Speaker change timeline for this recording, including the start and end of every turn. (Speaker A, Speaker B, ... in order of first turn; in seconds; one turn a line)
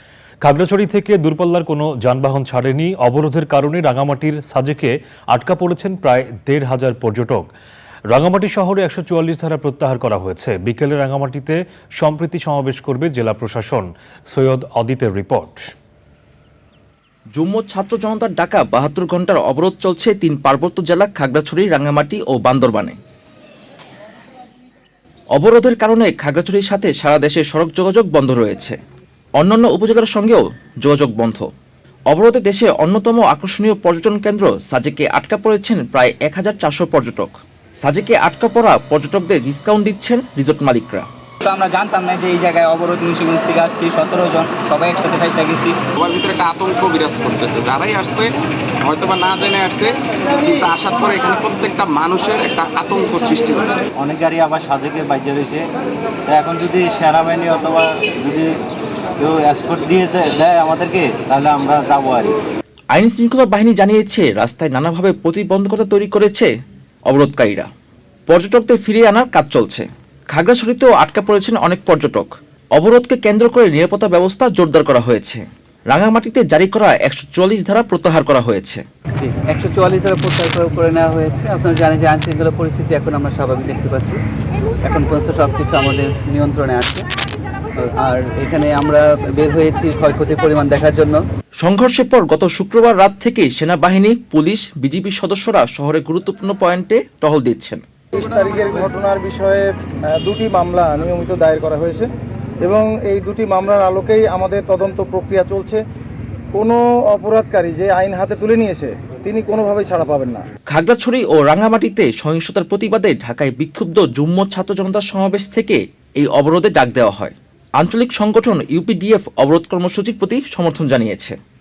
Speaker A: 0.4-7.5
Speaker A: 8.1-15.7
Speaker B: 17.4-23.0
Speaker B: 25.4-28.8
Speaker B: 29.4-31.4
Speaker B: 32.1-37.3
Speaker B: 37.8-41.1
Speaker C: 41.4-45.8
Speaker D: 46.0-48.3
Speaker D: 48.8-53.8
Speaker E: 54.0-55.6
Speaker E: 56.3-58.5
Speaker E: 59.2-62.3
Speaker B: 62.9-66.5
Speaker B: 67.1-67.7
Speaker B: 68.3-78.8
Speaker C: 79.2-84.2
Speaker C: 84.8-87.0
Speaker C: 87.9-91.2
Speaker B: 91.6-97.8
Speaker F: 98.1-102.1
Speaker F: 102.6-105.8
Speaker F: 106.5-110.4
Speaker B: 110.7-121.3